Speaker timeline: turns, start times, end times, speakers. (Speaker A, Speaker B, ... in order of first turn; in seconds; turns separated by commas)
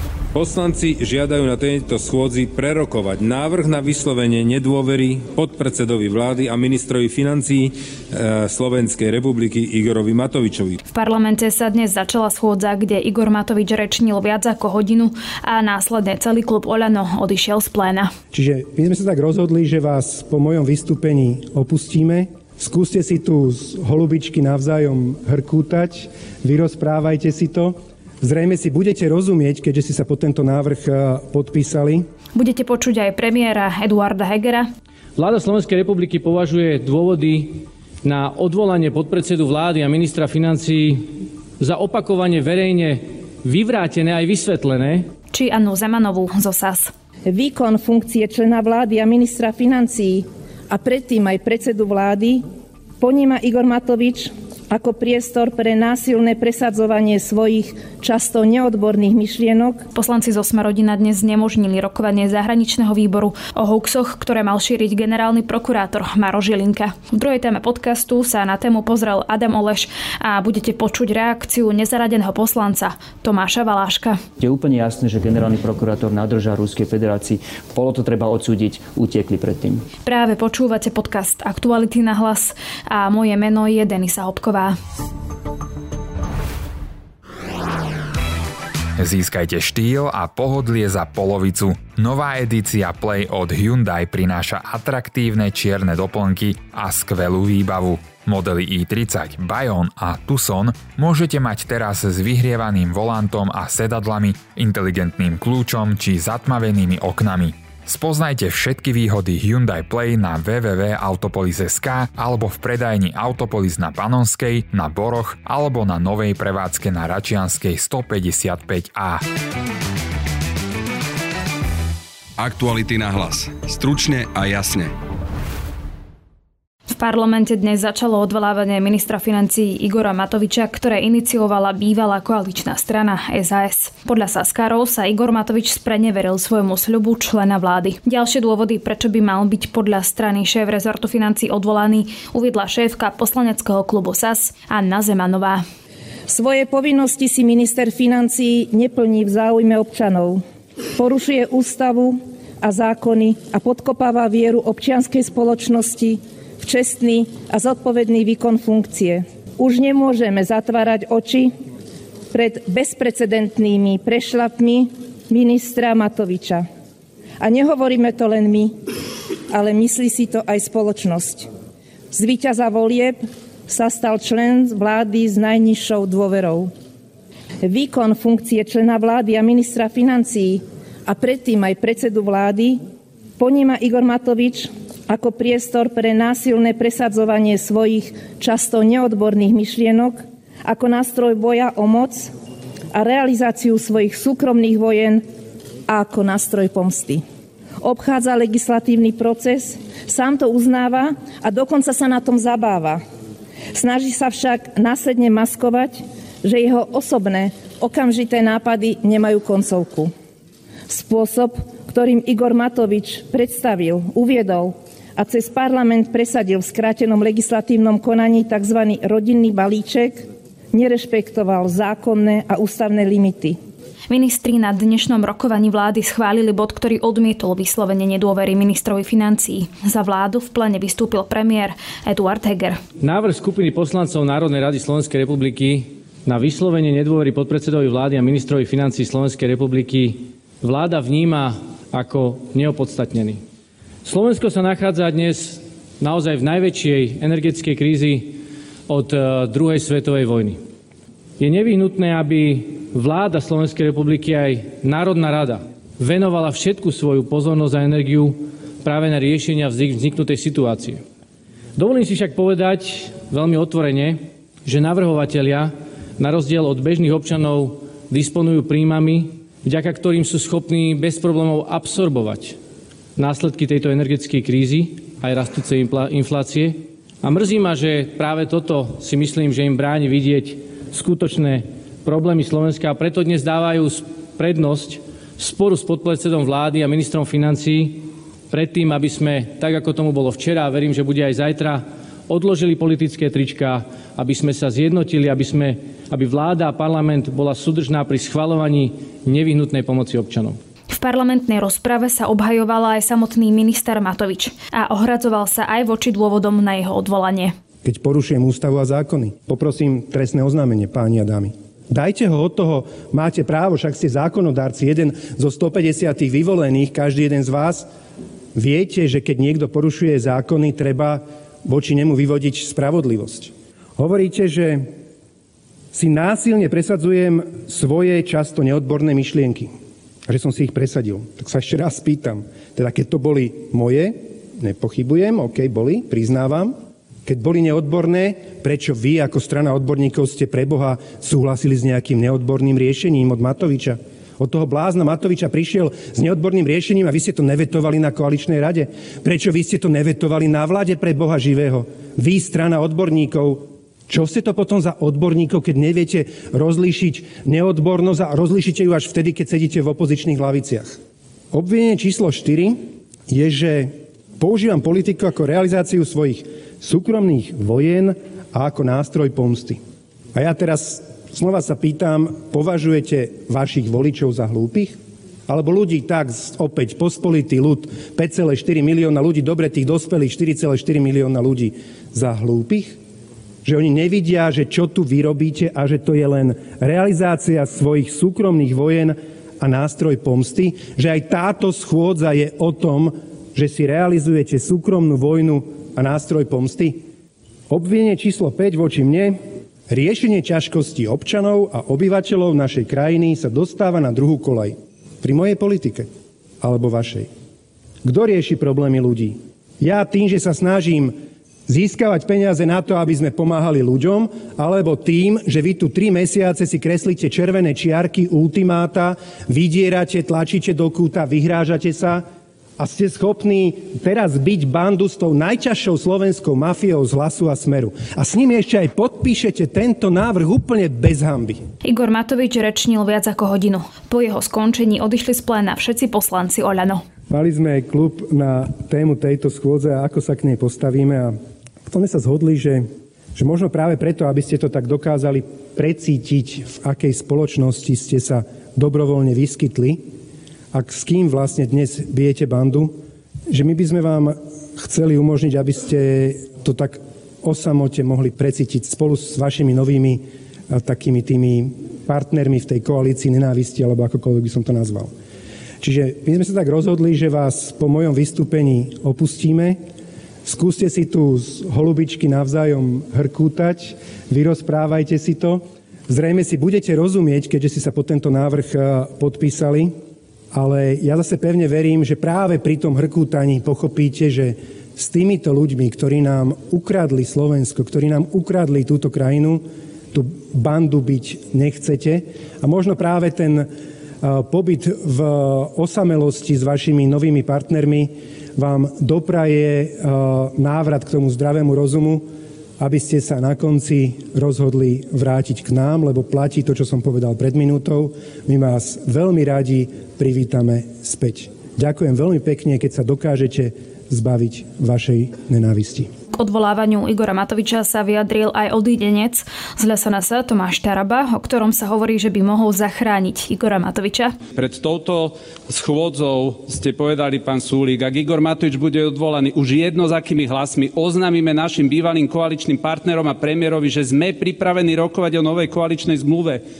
Speaker A: 0.3-10.8, Speaker B: 10.9-18.1, Speaker C: 18.3-32.0, Speaker B: 32.3-34.7, Speaker D: 35.2-41.1, Speaker D: 41.6-45.1, Speaker B: 45.3-46.9, Speaker E: 47.3-52.4, Speaker E: 53.0-59.8, Speaker B: 59.9-74.2, Speaker F: 74.4-79.8, Speaker B: 80.0-84.8, Speaker G: 89.0-119.2, Speaker H: 122.4-124.9, Speaker B: 126.9-145.6, Speaker E: 146.3-150.4, Speaker E: 150.9-161.5, Speaker E: 162.3-166.7, Speaker E: 167.4-168.7, Speaker E: 169.5-171.5, Speaker E: 172.1-176.7, Speaker E: 177.6-182.8, Speaker E: 183.4-192.3, Speaker E: 192.9-195.2, Speaker E: 195.9-197.2, Speaker E: 197.8-203.0, Speaker E: 203.7-210.1, Speaker E: 210.9-223.6, Speaker B: 224.1-232.8, Speaker D: 233.0-243.4, Speaker D: 244.0-250.6, Speaker D: 251.4-261.0, Speaker D: 261.8-272.6, Speaker D: 273.2-300.6, Speaker B: 300.9-307.5, Speaker C: 307.8-317.9, Speaker C: 318.5-324.8, Speaker C: 325.9-329.7, Speaker C: 330.3-336.7, Speaker C: 337.2-360.9, Speaker C: 361.5-362.8, Speaker C: 363.3-369.8, Speaker C: 370.3-375.0, Speaker C: 375.5-383.0, Speaker C: 383.6-397.0, Speaker C: 397.7-399.4, Speaker C: 399.9-406.1, Speaker C: 406.6-407.3, Speaker C: 408.0-411.1, Speaker C: 411.7-422.2, Speaker C: 422.8-431.6, Speaker B: 431.8-437.0, Speaker C: 437.3-441.3, Speaker C: 441.9-442.8, Speaker C: 443.4-450.0, Speaker C: 450.7-452.9, Speaker C: 453.5-460.2, Speaker C: 460.7-465.1, Speaker C: 465.8-469.8, Speaker C: 470.4-479.9, Speaker C: 480.5-489.6, Speaker C: 490.1-493.6, Speaker C: 494.2-502.2, Speaker C: 502.8-516.1, Speaker B: 516.3-524.4, Speaker I: 524.6-536.6